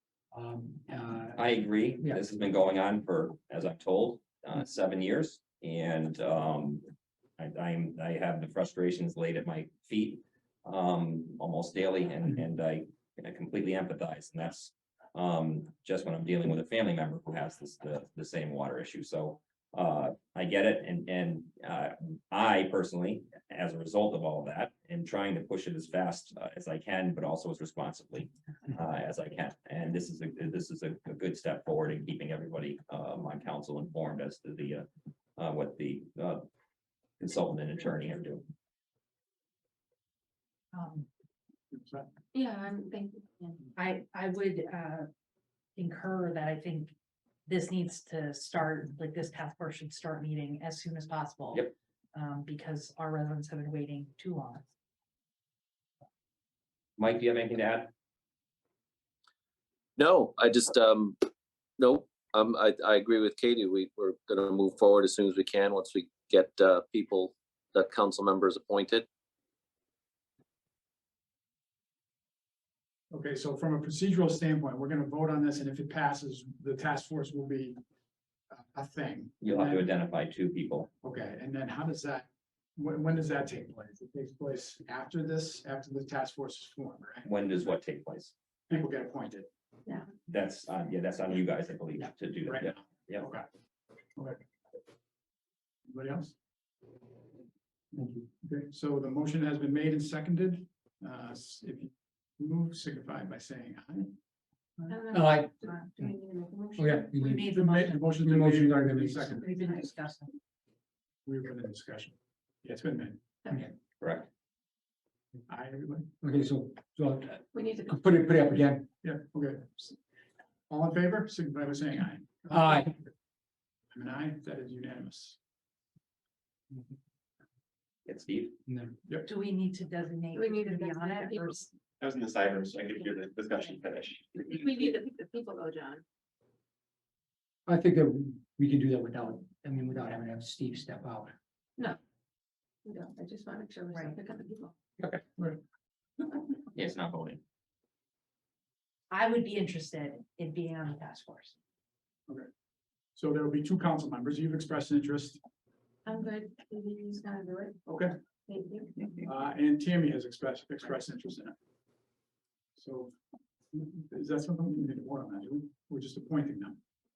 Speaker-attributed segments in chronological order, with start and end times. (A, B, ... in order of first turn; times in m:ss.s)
0:00.3-0:01.4 A
0:01.4-0:36.5 B
0:37.2-0:38.4 B
0:40.7-0:41.1 C
0:41.7-0:42.1 D
0:42.3-0:43.7 E
0:43.8-0:45.1 C
0:45.8-0:46.9 C
0:47.5-0:54.7 C
0:57.0-0:57.9 B
1:00.0-1:01.2 F
1:01.8-1:09.1 F
1:13.1-1:17.8 D
1:18.5-1:19.9 D
1:19.4-1:20.9 B
1:21.0-1:27.3 D
1:27.3-1:28.3 B
1:28.7-1:29.5 D
1:30.3-1:33.2 B
1:32.5-1:33.5 D
1:35.9-1:36.3 D
1:38.0-1:38.3 A
1:38.4-1:44.1 D
1:44.9-1:47.3 E
1:45.1-1:45.5 A
1:46.8-1:47.5 A
1:47.2-1:48.1 C
1:47.4-1:49.6 D
1:48.2-1:49.5 A
1:49.4-1:50.3 C
1:51.2-1:53.2 D
1:54.0-1:54.3 B
1:55.5-1:56.1 D
1:56.2-1:58.9 A
1:57.5-1:58.0 E
1:59.0-2:00.0 D
2:00.7-2:03.0 D
2:02.5-2:02.9 A
2:03.9-2:05.4 D
2:08.1-2:08.6 B
2:08.7-2:09.0 A
2:09.3-2:11.7 C
2:10.3-2:11.7 E
2:12.0-2:14.2 G
2:14.4-2:16.0 E
2:17.7-2:21.4 A
2:22.8-2:24.7 E
2:23.9-2:24.2 C
2:26.8-2:27.4 B
2:29.1-2:31.6 C
2:33.2-2:35.4 D
2:36.0-2:38.0 E
2:37.9-2:38.1 D
2:38.5-2:39.0 E
2:39.2-2:41.6 D
2:42.8-2:43.1 D
2:43.7-2:46.8 D